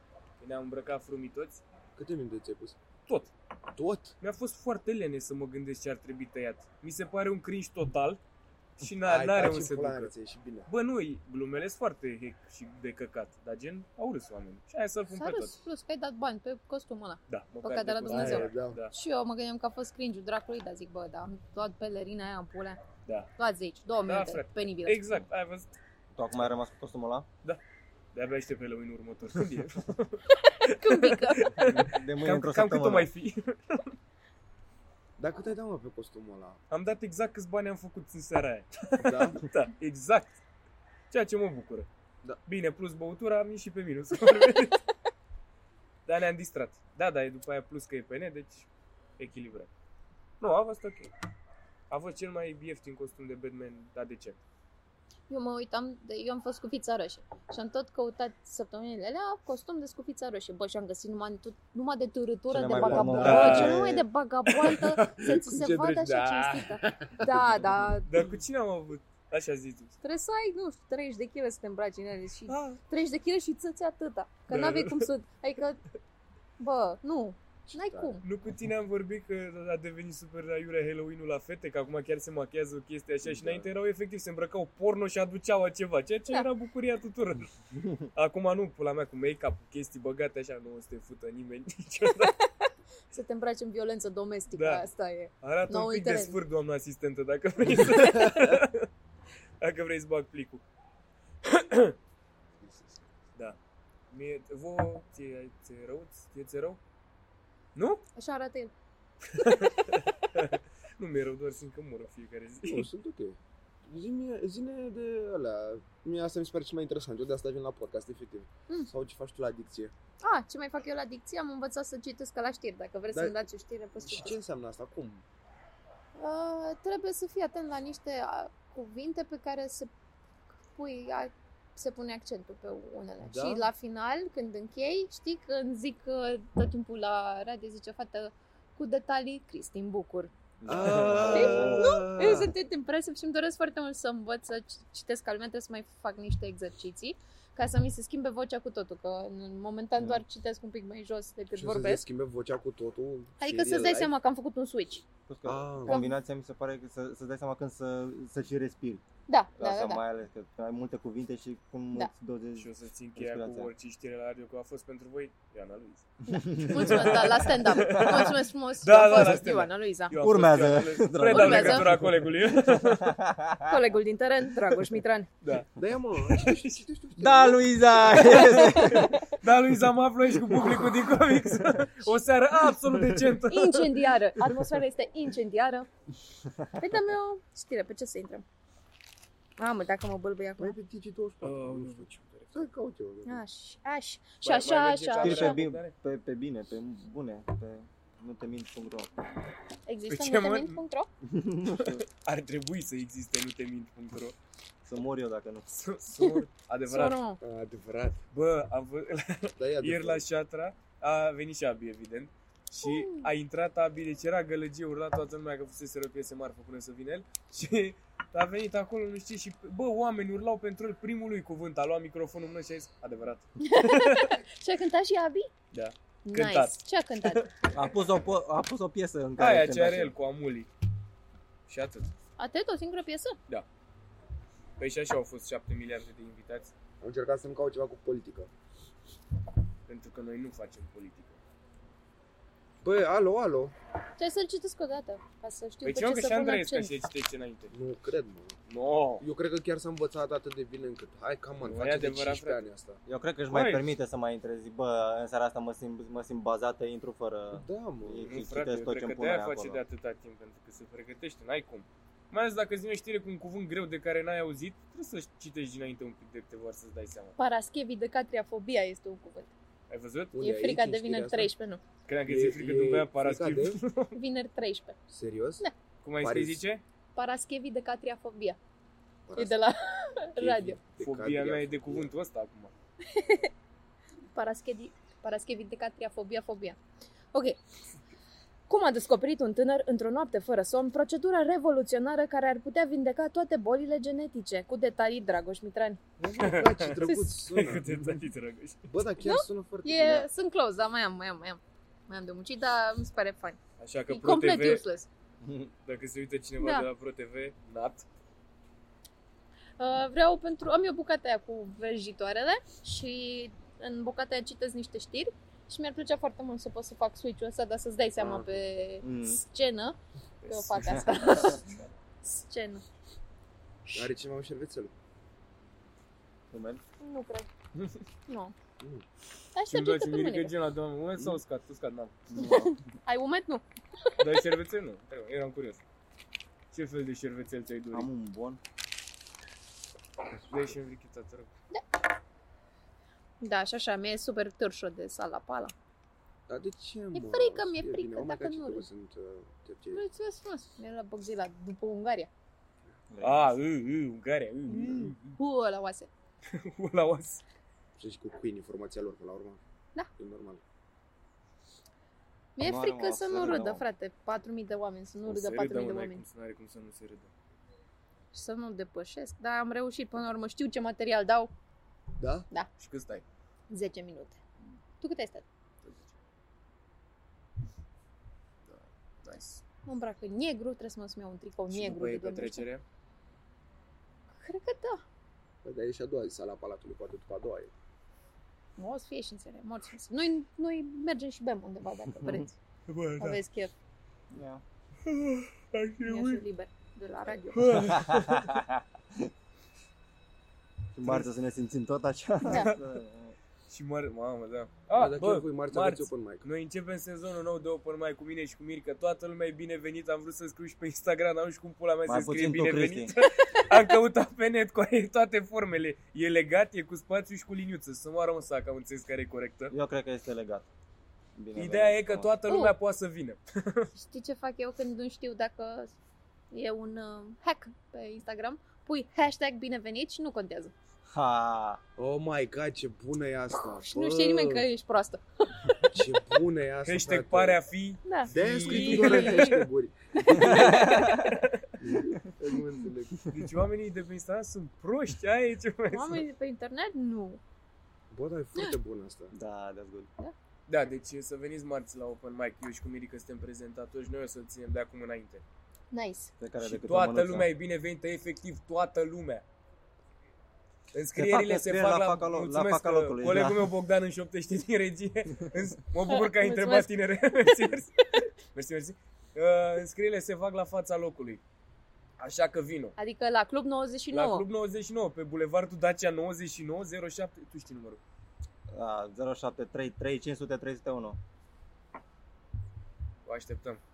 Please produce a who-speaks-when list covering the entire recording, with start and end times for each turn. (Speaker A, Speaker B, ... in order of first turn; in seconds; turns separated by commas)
Speaker A: 0.4-1.6, Speaker B: 1.9-2.8, Speaker B: 3.7-4.1, Speaker A: 4.2-8.2, Speaker A: 8.8-10.1, Speaker B: 9.0-10.7, Speaker A: 10.7-15.6, Speaker C: 15.1-22.8, Speaker A: 17.3-18.9, Speaker B: 18.1-18.8, Speaker C: 23.4-25.0, Speaker A: 24.0-25.7, Speaker D: 26.1-27.2, Speaker A: 28.1-34.0, Speaker C: 30.6-31.5, Speaker D: 31.6-33.1, Speaker B: 35.2-36.6, Speaker A: 36.7-40.4, Speaker B: 39.0-39.4, Speaker A: 41.1-41.9, Speaker A: 42.5-44.8, Speaker A: 46.0-49.7, Speaker A: 50.4-51.1, Speaker A: 51.9-54.4, Speaker C: 55.3-68.2, Speaker D: 62.5-64.0, Speaker B: 62.7-63.7, Speaker A: 63.2-63.8, Speaker A: 64.5-67.1, Speaker A: 68.0-69.9, Speaker C: 70.0-75.8, Speaker A: 72.5-72.8, Speaker A: 74.5-75.1, Speaker C: 76.6-78.2, Speaker B: 77.7-78.2, Speaker A: 78.2-92.3, Speaker B: 83.2-83.7, Speaker C: 93.1-96.4, Speaker A: 94.5-94.9, Speaker A: 95.4-98.9, Speaker C: 97.8-98.3, Speaker A: 99.6-100.6, Speaker A: 101.4-101.9, Speaker B: 102.6-103.0, Speaker A: 104.1-106.8, Speaker A: 107.8-108.0, Speaker C: 108.2-108.7, Speaker A: 109.3-112.9, Speaker B: 112.7-119.9, Speaker C: 120.2-124.4, Speaker B: 123.1-123.4, Speaker B: 124.0-125.2, Speaker C: 126.2-129.9, Speaker C: 130.7-140.3, Speaker B: 133.2-133.7, Speaker D: 140.6-142.0, Speaker B: 140.7-142.5, Speaker C: 141.2-152.0, Speaker D: 150.0-150.2, Speaker B: 151.5-154.1, Speaker C: 153.4-155.0, Speaker D: 155.3-159.0, Speaker B: 155.4-156.0, Speaker C: 155.9-156.1, Speaker C: 159.3-160.0, Speaker D: 159.6-163.7, Speaker A: 162.6-166.1, Speaker C: 166.2-170.2, Speaker D: 166.3-168.2, Speaker A: 166.7-173.1, Speaker D: 170.2-173.8, Speaker C: 171.3-171.9, Speaker C: 173.7-175.3, Speaker A: 175.4-176.8, Speaker B: 175.8-177.8, Speaker D: 177.2-179.1, Speaker C: 178.1-179.4, Speaker A: 178.2-184.6, Speaker D: 183.0-183.2, Speaker C: 183.5-185.9, Speaker D: 186.4-186.8, Speaker C: 186.8-188.4, Speaker C: 189.6-190.8, Speaker B: 190.6-193.4, Speaker A: 191.4-192.7, Speaker C: 193.2-195.6, Speaker A: 194.4-195.9, Speaker D: 195.2-199.1, Speaker C: 199.9-201.1, Speaker A: 200.1-200.8, Speaker D: 201.2-202.0, Speaker A: 201.7-204.3, Speaker D: 204.8-205.7, Speaker A: 205.7-207.2, Speaker C: 206.1-207.4, Speaker B: 207.4-208.2, Speaker A: 208.3-224.4, Speaker B: 209.6-210.2, Speaker C: 212.8-213.3, Speaker C: 223.6-225.5, Speaker A: 225.7-227.5, Speaker C: 226.2-227.4, Speaker D: 227.7-230.1, Speaker A: 229.4-230.7, Speaker A: 231.7-232.1, Speaker C: 232.4-233.4, Speaker A: 234.8-236.7, Speaker B: 237.0-238.5, Speaker A: 239.9-241.4, Speaker B: 242.8-243.7, Speaker C: 244.2-246.9, Speaker A: 245.8-247.7, Speaker B: 247.7-248.6, Speaker A: 248.7-249.2, Speaker B: 249.2-253.0, Speaker A: 251.6-252.7, Speaker D: 253.1-259.8, Speaker A: 253.5-253.8, Speaker B: 257.5-258.3, Speaker A: 258.2-267.4, Speaker C: 267.4-269.5, Speaker A: 269.9-270.4, Speaker B: 270.3-271.5, Speaker C: 270.4-271.8, Speaker A: 272.1-274.2, Speaker B: 272.2-273.8, Speaker C: 274.1-274.9, Speaker B: 275.1-275.6, Speaker A: 276.0-276.8, Speaker B: 276.2-276.6, Speaker C: 277.1-278.6, Speaker B: 279.3-279.6, Speaker C: 279.4-280.8, Speaker B: 280.4-282.1, Speaker A: 281.0-282.7, Speaker C: 283.1-283.5, Speaker C: 284.3-286.8, Speaker C: 287.3-287.6, Speaker C: 288.7-296.0, Speaker B: 296.2-298.2, Speaker A: 296.3-298.9, Speaker B: 298.9-300.3, Speaker C: 299.2-305.1, Speaker A: 303.8-304.9, Speaker D: 305.4-305.7, Speaker A: 305.8-308.1, Speaker C: 306.6-306.9, Speaker C: 309.8-321.6, Speaker B: 318.2-318.6, Speaker D: 319.0-319.4, Speaker A: 320.4-321.0, Speaker D: 320.8-321.8, Speaker C: 322.2-322.8, Speaker B: 323.9-324.9, Speaker D: 326.5-326.8, Speaker C: 327.0-327.5, Speaker A: 327.7-328.0, Speaker C: 328.3-328.5, Speaker C: 329.5-330.5, Speaker A: 329.7-332.2, Speaker D: 332.3-332.8, Speaker C: 332.3-334.1, Speaker A: 334.2-335.8, Speaker A: 336.7-338.1, Speaker D: 337.9-338.6, Speaker A: 340.5-341.5, Speaker C: 343.4-345.7, Speaker B: 346.5-350.0, Speaker C: 347.1-348.9, Speaker C: 349.9-352.3, Speaker D: 353.1-353.6, Speaker A: 353.2-355.4, Speaker C: 354.7-356.1, Speaker A: 356.4-357.4, Speaker B: 358.0-359.6, Speaker B: 360.2-360.6, Speaker C: 362.6-366.2, Speaker D: 362.6-363.8, Speaker A: 365.2-367.3, Speaker C: 368.3-371.5, Speaker B: 372.2-372.5, Speaker A: 372.8-373.2, Speaker C: 373.7-374.4, Speaker C: 375.0-375.4, Speaker A: 375.8-376.1, Speaker A: 378.6-379.6, Speaker C: 379.8-382.6, Speaker A: 381.7-382.8, Speaker C: 384.4-385.0, Speaker B: 385.6-387.7, Speaker C: 388.8-392.5, Speaker A: 392.9-393.4, Speaker C: 393.2-393.7, Speaker D: 394.3-394.6, Speaker A: 395.0-396.4, Speaker C: 396.0-397.6, Speaker A: 397.5-398.6, Speaker D: 397.8-399.3, Speaker D: 400.9-403.3, Speaker A: 401.0-401.3, Speaker C: 402.5-402.7, Speaker A: 402.5-402.8, Speaker A: 403.7-419.7, Speaker B: 404.9-406.4, Speaker D: 412.1-413.1, Speaker C: 413.2-413.9, Speaker D: 419.7-420.6, Speaker D: 421.4-422.3, Speaker A: 421.5-423.9, Speaker C: 422.5-422.7, Speaker C: 423.9-425.9, Speaker C: 426.5-430.7, Speaker D: 431.1-431.8, Speaker B: 432.0-434.6, Speaker C: 433.6-435.9, Speaker B: 435.8-437.6, Speaker A: 436.8-439.6, Speaker C: 438.0-439.6, Speaker B: 438.3-440.7, Speaker C: 440.1-441.2, Speaker D: 440.4-441.4, Speaker A: 440.7-441.6, Speaker B: 441.8-443.2, Speaker A: 443.2-446.2, Speaker C: 445.9-447.4, Speaker B: 448.1-449.3, Speaker D: 449.3-450.1, Speaker A: 450.7-455.4, Speaker C: 455.9-456.3, Speaker D: 456.4-457.5, Speaker A: 456.6-459.4, Speaker A: 460.9-471.4, Speaker D: 461.1-463.7, Speaker C: 466.1-467.4, Speaker A: 472.2-472.9, Speaker C: 473.0-474.4, Speaker A: 474.1-478.0, Speaker D: 478.7-481.2, Speaker A: 483.2-483.8